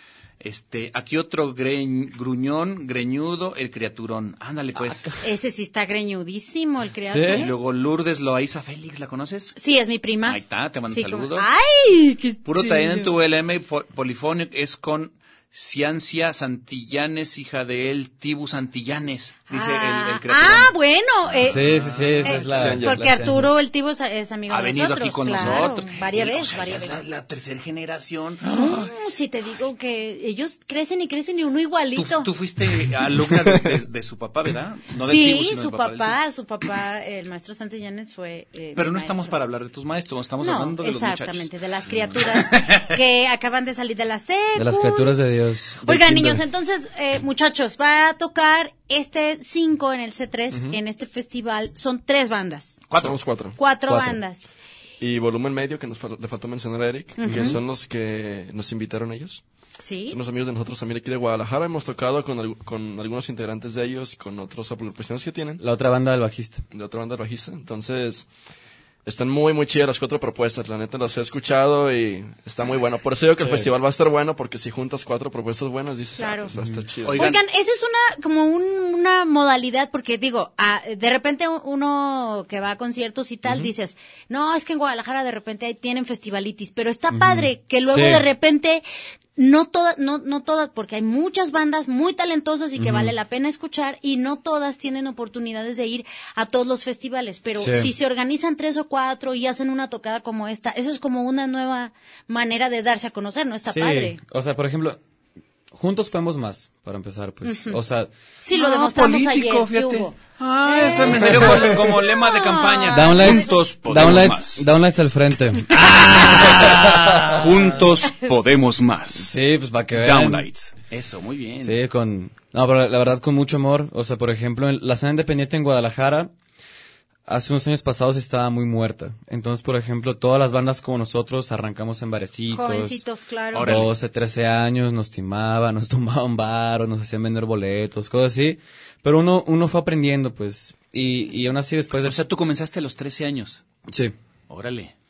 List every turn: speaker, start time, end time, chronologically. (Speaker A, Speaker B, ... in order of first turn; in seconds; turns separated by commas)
Speaker A: 0.4-5.1, Speaker B: 5.2-7.5, Speaker C: 7.1-7.5, Speaker A: 7.3-9.5, Speaker B: 9.6-13.1, Speaker A: 10.2-11.5, Speaker A: 12.4-20.7, Speaker B: 19.5-21.6, Speaker A: 21.4-22.6, Speaker C: 21.5-23.5, Speaker B: 22.2-27.0, Speaker D: 22.5-23.1, Speaker A: 24.5-28.9, Speaker B: 28.5-32.3, Speaker A: 31.9-36.2, Speaker B: 35.0-39.4, Speaker A: 38.7-42.9, Speaker B: 40.4-45.2, Speaker C: 44.5-46.4, Speaker B: 45.8-52.8, Speaker A: 52.9-53.2, Speaker D: 53.0-53.6, Speaker B: 53.5-54.4, Speaker C: 53.9-54.2, Speaker D: 55.0-59.4, Speaker B: 57.2-57.5, Speaker C: 57.2-57.5, Speaker B: 59.8-60.2, Speaker D: 60.1-65.6, Speaker C: 65.6-66.6, Speaker D: 66.7-68.3, Speaker D: 69.0-77.2, Speaker C: 73.4-73.7, Speaker B: 76.2-76.5, Speaker C: 76.5-76.8, Speaker A: 77.0-77.4, Speaker B: 77.1-88.8, Speaker C: 87.1-88.2, Speaker B: 89.4-104.2, Speaker C: 92.8-93.1, Speaker C: 97.6-97.9, Speaker C: 103.7-105.0, Speaker C: 105.7-108.1, Speaker B: 107.4-107.8, Speaker B: 108.4-113.5, Speaker A: 108.5-114.7, Speaker C: 111.2-111.7, Speaker C: 112.9-117.5, Speaker A: 115.7-119.4, Speaker C: 119.2-120.5, Speaker A: 119.9-121.8, Speaker C: 121.6-126.3, Speaker C: 127.3-133.0, Speaker B: 132.5-133.9, Speaker A: 133.5-133.9, Speaker C: 133.6-142.2, Speaker A: 142.0-143.6, Speaker C: 143.9-144.1, Speaker A: 144.5-144.9